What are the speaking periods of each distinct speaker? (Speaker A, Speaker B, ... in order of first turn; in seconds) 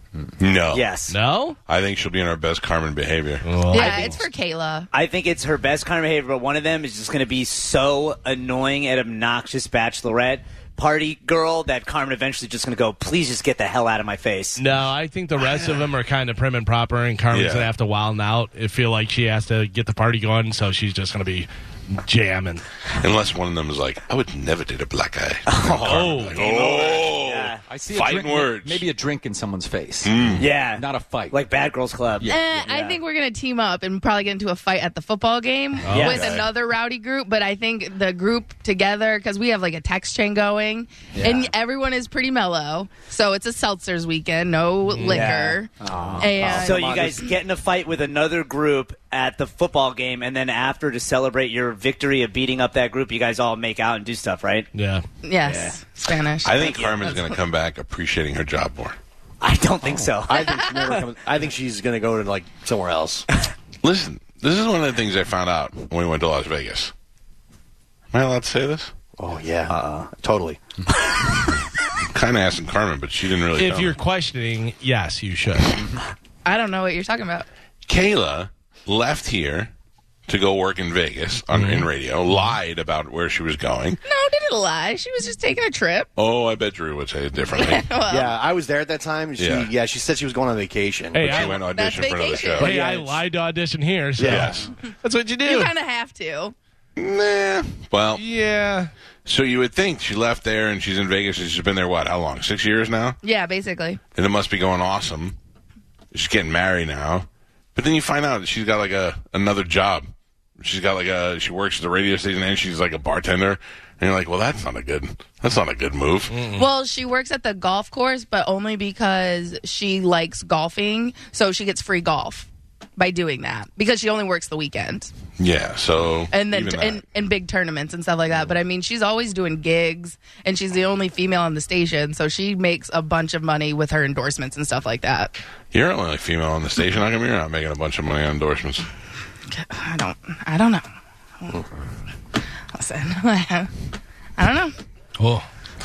Speaker A: 0.4-0.8, 1.7-3.5, 17.3-17.7, 22.9-28.8, 30.0-30.5, 36.0-36.5, 56.4-59.0, 63.8-66.9, 68.1-68.9, 72.0-74.0, 77.9-79.7, 80.3-84.0, 86.2-87.9, 89.4-89.7, 91.2-92.7, 94.3-94.6, 97.0-98.2, 99.2-103.2, 104.1-105.3, 106.1-110.1, 110.6-116.4, 125.4-127.0, 135.7-138.8
Speaker B: 0.7-1.1, 3.7-4.1, 4.9-14.6, 25.5-27.6, 30.4-33.0, 35.9-36.4, 41.1-41.5, 45.0-54.7, 55.4-55.8, 56.4-57.1, 59.4-61.0, 69.7-70.1, 70.9-71.3
Speaker C: 1.1-1.6, 3.4-4.2, 14.6-22.6, 25.8-26.4, 35.8-36.2, 44.9-45.3, 54.7-55.0, 73.5-75.8, 81.5-82.5, 91.1-91.6, 92.6-95.7, 98.2-98.9, 116.3-116.7, 145.2-145.4
Speaker D: 3.7-4.9, 32.2-47.3, 55.2-57.2, 76.4-77.5, 84.0-86.1, 87.5-88.3, 91.3-92.7, 95.4-96.5, 103.2-104.0, 116.5-125.1, 126.3-135.4, 139.5-140.8, 142.7-143.7, 144.4-144.8
Speaker E: 27.6-31.4, 32.2-32.5
Speaker F: 46.1-47.2, 60.2-63.2, 69.2-70.6, 88.1-91.3, 92.6-93.2, 94.2-94.7